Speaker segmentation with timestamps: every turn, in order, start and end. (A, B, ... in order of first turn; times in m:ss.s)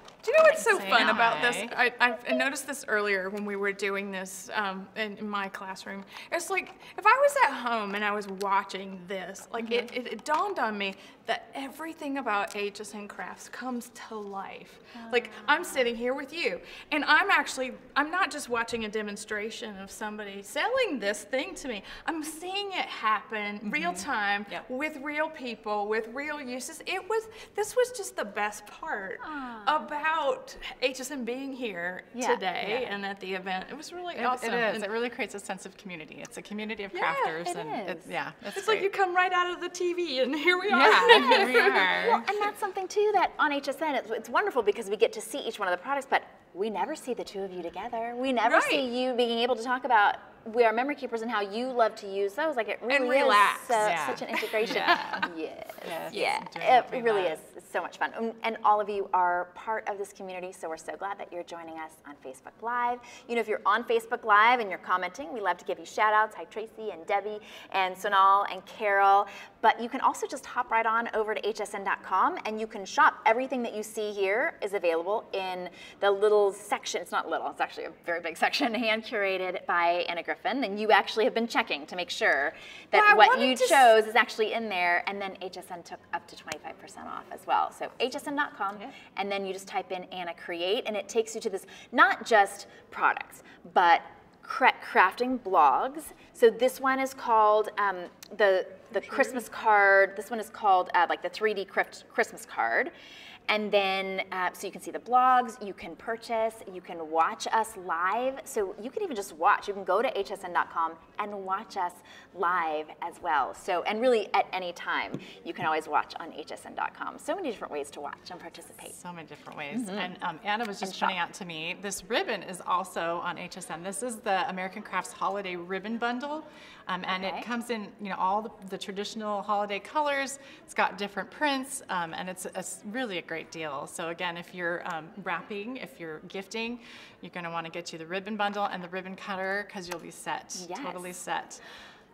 0:00.2-0:34.9 A
0:00.5-0:01.8 B
0:09.6-0:09.9 B
0:15.0-0:15.6 C
0:23.6-0:24.6 B
0:29.2-0:29.8 C
0:32.2-0:32.4 C
0:32.6-0:32.9 B
0:34.2-0:38.9 B
0:36.9-0:37.5 A
0:37.4-0:38.1 C
0:38.5-0:41.9 A
0:40.7-0:42.3 B
0:41.1-1:42.9 C
0:48.4-0:48.9 A
0:52.9-0:55.2 A
0:53.7-0:55.3 B
0:55.8-0:57.4 B
1:22.9-1:23.9 A
1:43.5-1:59.0 C
1:58.9-2:21.6 B
1:59.7-2:00.1 C
2:00.8-2:01.2 C
2:07.1-2:07.5 C
2:20.6-2:21.2 C